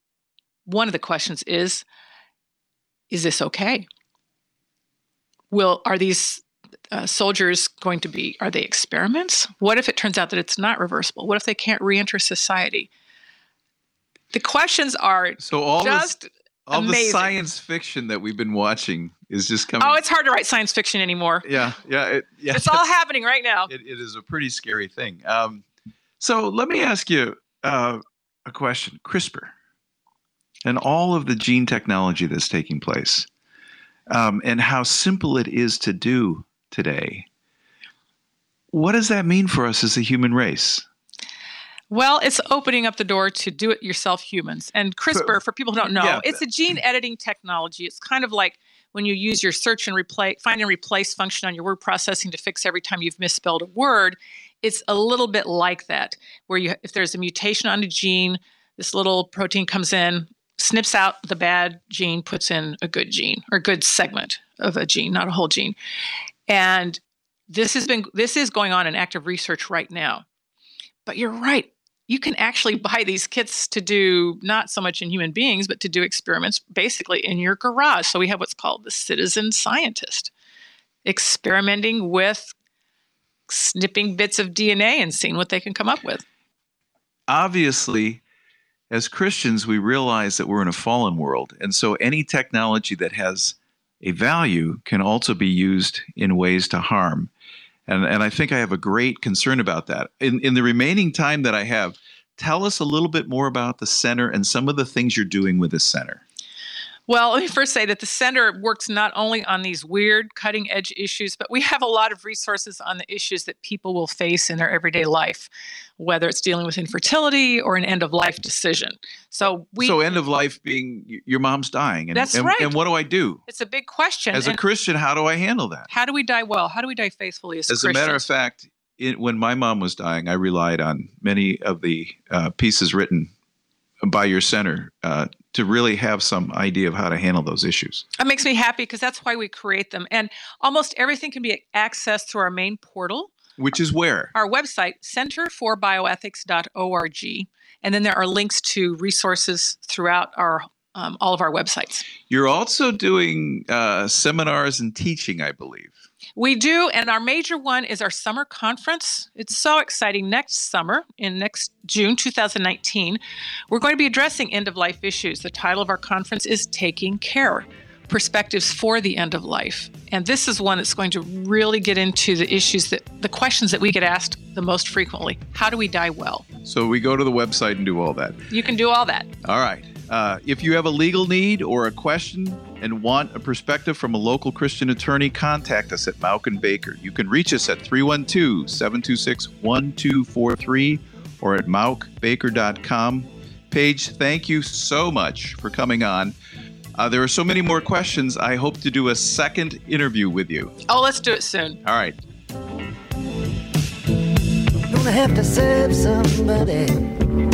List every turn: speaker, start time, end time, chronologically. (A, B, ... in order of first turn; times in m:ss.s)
0:00.6-0:01.8 A
0:03.1-0:03.9 A
0:05.5-0:12.9 A
0:14.3-0:17.3 A
0:15.4-0:16.1 B
0:16.7-0:20.0 B
0:19.8-0:21.5 A
0:21.4-0:22.8 B
0:22.5-0:23.7 A
0:23.7-0:25.6 B
0:26.2-0:29.5 B
0:30.6-0:33.3 B
0:34.1-0:37.3 B
0:38.7-0:40.8 B
0:41.9-1:05.8 A
0:45.9-0:46.4 B
1:06.5-1:10.2 A
1:11.0-1:20.3 A
1:21.0-1:22.5 A
1:23.5-1:26.2 A
1:27.3-1:28.2 B
1:28.9-1:37.3 B
1:37.9-1:46.2 B
1:47.1-2:00.0 A
1:59.8-2:03.4 B
2:02.1-2:02.7 A
2:03.5-2:04.6 A
2:04.3-2:05.9 B
2:05.9-2:08.2 A
2:07.7-2:13.3 B
2:14.0-2:18.0 B
2:18.2-2:23.3 A
2:23.6-2:24.3 B
2:24.3-2:32.0 A
2:32.2-2:36.0 B
2:36.4-2:43.2 A
2:43.7-2:56.4 A
2:56.6-2:58.4 B
2:58.5-2:59.3 A
2:59.4-3:16.3 B
3:17.0-3:20.7 B
3:20.9-3:21.8 A
3:21.8-3:22.2 B
3:24.9-3:27.2 C